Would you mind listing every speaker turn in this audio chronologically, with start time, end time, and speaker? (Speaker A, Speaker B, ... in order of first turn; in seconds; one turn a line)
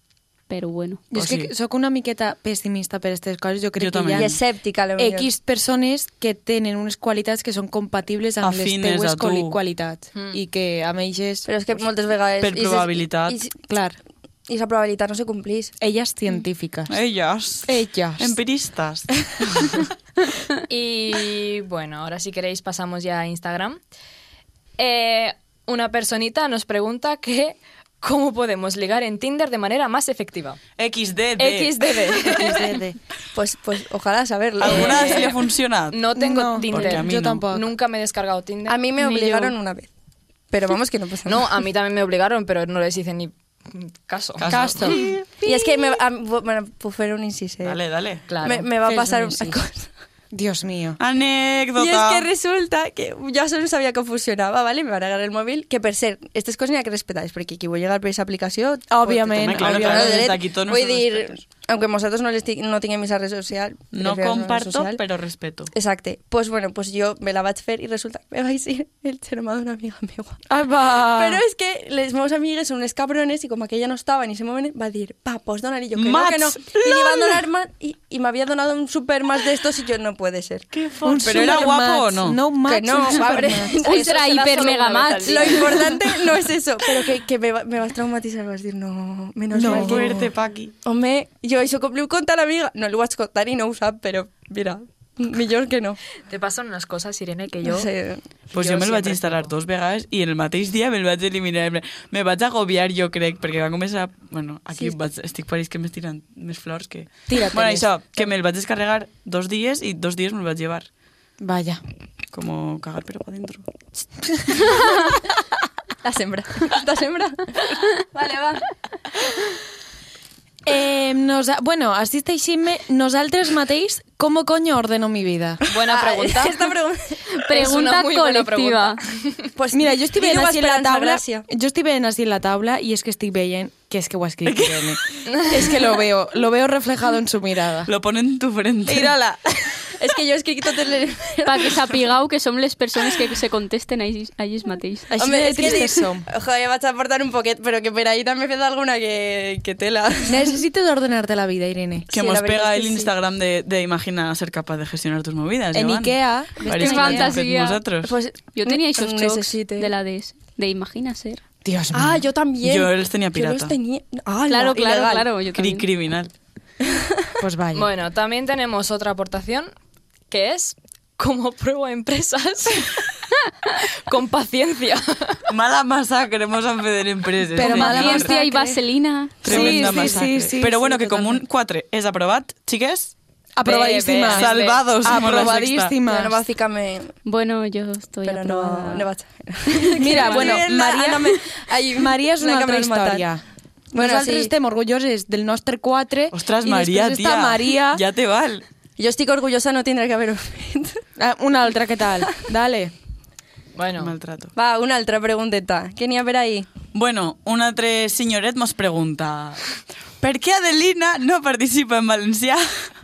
Speaker A: 0.5-1.0
Speaker B: 1.1-4.4
Speaker C: 1.1-1.5
Speaker C: 3.8-4.3
Speaker D: 4.1-5.3
Speaker B: 5.0-11.5
Speaker C: 8.4-9.6
Speaker E: 10.1-10.4
Speaker D: 11.4-13.6
Speaker C: 12.4-13.4
Speaker B: 13.7-14.0
Speaker D: 14.5-15.7
Speaker B: 15.8-16.9
Speaker C: 16.9-19.9
Speaker B: 17.6-18.4
Speaker E: 20.7-23.8
Speaker E: 24.8-30.6
Speaker C: 30.8-31.9
Speaker E: 31.4-32.7
Speaker B: 32.3-33.0
Speaker D: 33.3-35.4
Speaker C: 34.6-36.1
Speaker E: 34.7-35.4
Speaker E: 35.9-38.8
Speaker B: 36.1-37.7
Speaker C: 36.6-37.5
Speaker D: 38.7-39.9
Speaker A: 39.0-39.5
Speaker D: 40.5-41.5
Speaker E: 41.2-45.0
Speaker C: 44.4-45.3
Speaker B: 44.5-45.0
Speaker D: 45.4-47.8
Speaker C: 47.6-48.2
Speaker E: 48.3-48.7
Speaker D: 48.4-49.9
Speaker B: 48.9-49.6
Speaker B: 50.3-51.0
Speaker C: 51.0-52.3
Speaker D: 51.8-65.0
Speaker B: 58.9-60.2
Speaker C: 59.4-61.4
Speaker C: 63.9-65.7
Speaker D: 65.7-70.4
Speaker B: 70.5-71.4
Speaker D: 71.1-80.7
Speaker C: 75.9-77.4
Speaker C: 80.7-82.4
Speaker B: 81.0-83.8
Speaker D: 81.3-81.7
Speaker D: 82.6-84.1
Speaker E: 83.8-85.9
Speaker A: 83.8-85.9
Speaker D: 85.2-90.3
Speaker B: 89.5-90.3
Speaker C: 89.6-90.7
Speaker D: 90.8-96.0
Speaker E: 96.3-97.9
Speaker D: 97.6-98.2
Speaker E: 98.5-99.5
Speaker C: 98.5-110.9
Speaker B: 107.3-107.9
Speaker B: 111.4-111.8
Speaker C: 112.3-113.7
Speaker D: 114.7-115.2
Speaker D: 116.0-118.6
Speaker B: 120.6-125.6
Speaker E: 125.7-126.6
Speaker D: 125.9-127.2
Speaker A: 127.4-129.0
Speaker E: 127.5-129.5
Speaker D: 129.5-131.4
Speaker B: 129.7-137.9
Speaker C: 134.5-134.9
Speaker E: 135.3-135.6
Speaker C: 137.8-139.2
Speaker B: 138.9-139.4
Speaker D: 139.9-141.9
Speaker A: 141.4-145.1
Speaker B: 145.1-146.2
Speaker D: 145.2-150.6
Speaker B: 150.3-152.1
Speaker D: 152.1-153.1
Speaker C: 152.1-158.1
Speaker B: 155.7-157.4
Speaker A: 156.7-157.8
Speaker D: 158.0-159.9
Speaker A: 158.5-161.4
Speaker B: 161.6-162.2
Speaker D: 161.9-165.3
Speaker C: 162.6-163.7
Speaker A: 164.5-165.9
Speaker C: 165.5-166.3
Speaker D: 166.8-167.3
Speaker B: 167.4-167.9
Speaker E: 167.7-169.7
Speaker E: 170.3-173.2
Speaker E: 174.1-175.4
Speaker C: 175.5-178.3
Speaker B: 177.5-178.8
Speaker A: 177.6-180.2
Speaker B: 179.4-181.4
Speaker C: 179.4-183.1
Speaker B: 183.6-186.4
Speaker E: 183.6-185.1
Speaker C: 184.3-185.9
Speaker D: 186.0-187.2
Speaker A: 187.2-189.1
Speaker D: 188.2-193.2
Speaker A: 189.9-190.6
Speaker B: 189.9-191.4
Speaker B: 191.9-193.4
Speaker B: 193.9-198.0
Speaker D: 193.9-194.5
Speaker C: 196.3-198.6
Speaker D: 199.0-201.0
Speaker B: 201.2-202.9
Speaker E: 203.8-204.1
Speaker C: 204.0-204.5
Speaker D: 204.5-206.7
Speaker C: 206.9-212.9